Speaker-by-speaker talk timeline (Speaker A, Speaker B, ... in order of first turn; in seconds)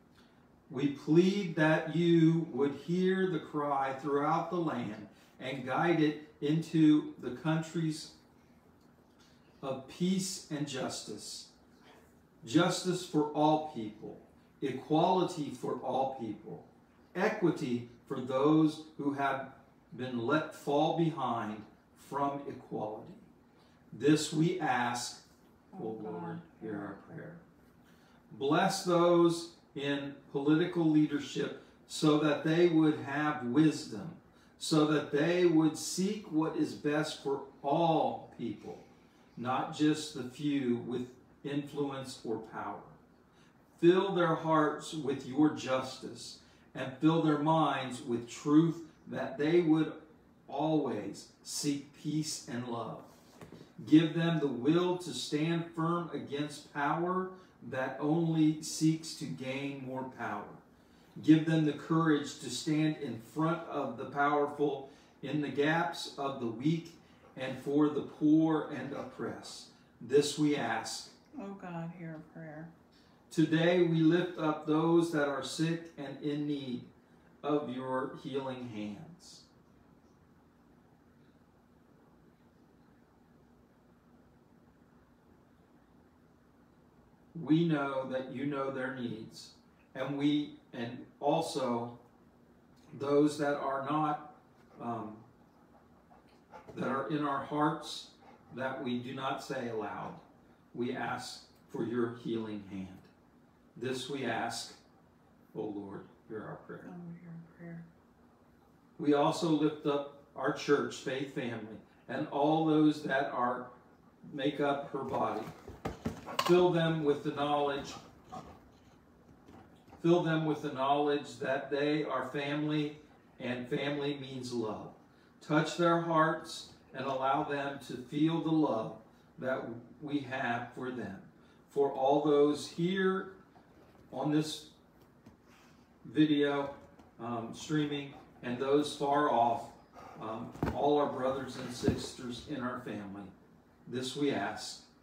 Speaker A: 0.7-8.1, 9.6-11.5, 12.4-23.3, 23.9-27.4, 28.3-43.0, 43.8-49.9, 50.5-53.1, 53.8-60.6, 61.2-71.1, 73.3-76.9, 77.4-79.5, 87.3-92.0, 92.9-95.2, 96.7-100.2, 100.7-103.1, 103.8-104.8, 105.5-106.9, 109.0-113.7, 114.2-115.5, 116.4-118.0, 120.0-133.4, 134.1-134.7, 136.0-143.3, 143.9-144.9
Speaker B: 25.7-27.3, 71.3-72.7, 106.8-107.9